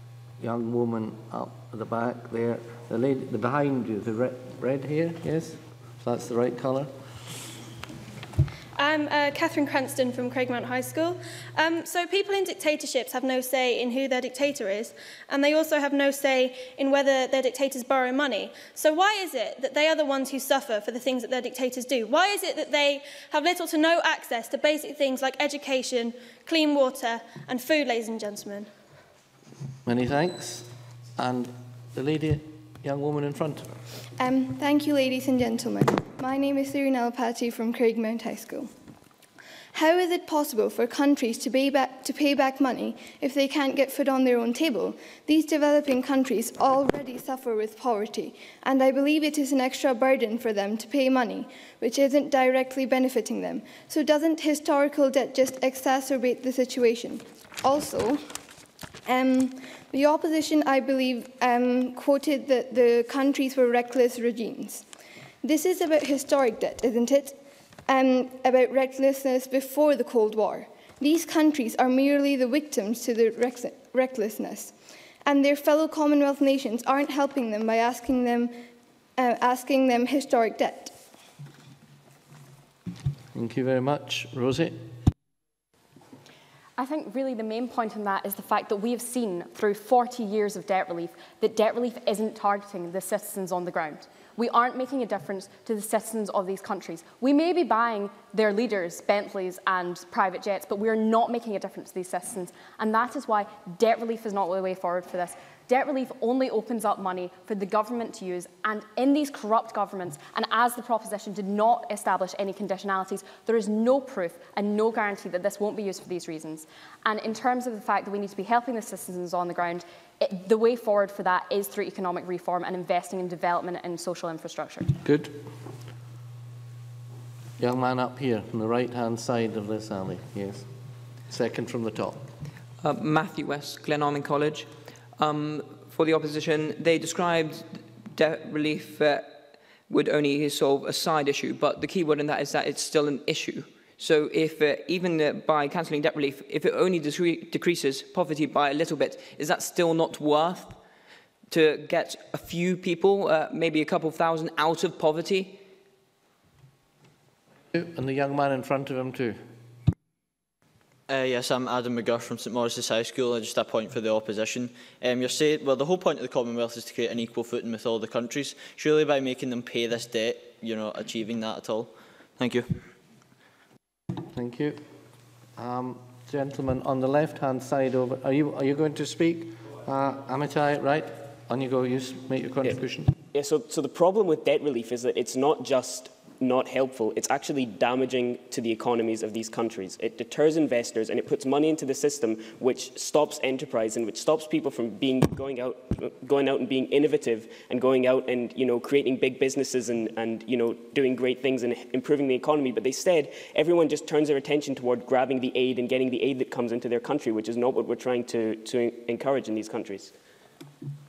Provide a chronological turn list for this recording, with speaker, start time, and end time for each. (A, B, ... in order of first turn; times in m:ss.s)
0:00.4-0:06.9 A
0:08.8-0:28.7 B
0:29.8-0:33.8 A
0:34.2-0:38.7 C
0:39.7-0:58.2 C
0:59.1-1:04.8 C
1:05.4-1:07.4 C
1:07.9-1:18.6 C
1:19.2-1:20.9 C
1:23.3-1:24.8 A
1:26.8-2:04.9 D
2:05.0-2:05.4 A
2:07.6-2:10.7 A
2:11.3-2:12.2 A
2:12.8-2:30.8 E
2:31.5-2:35.6 E
2:37.7-2:39.4 A
2:41.1-2:52.7 F
2:54.3-2:54.8 A
2:55.6-3:03.1 A
3:03.3-3:30.1 G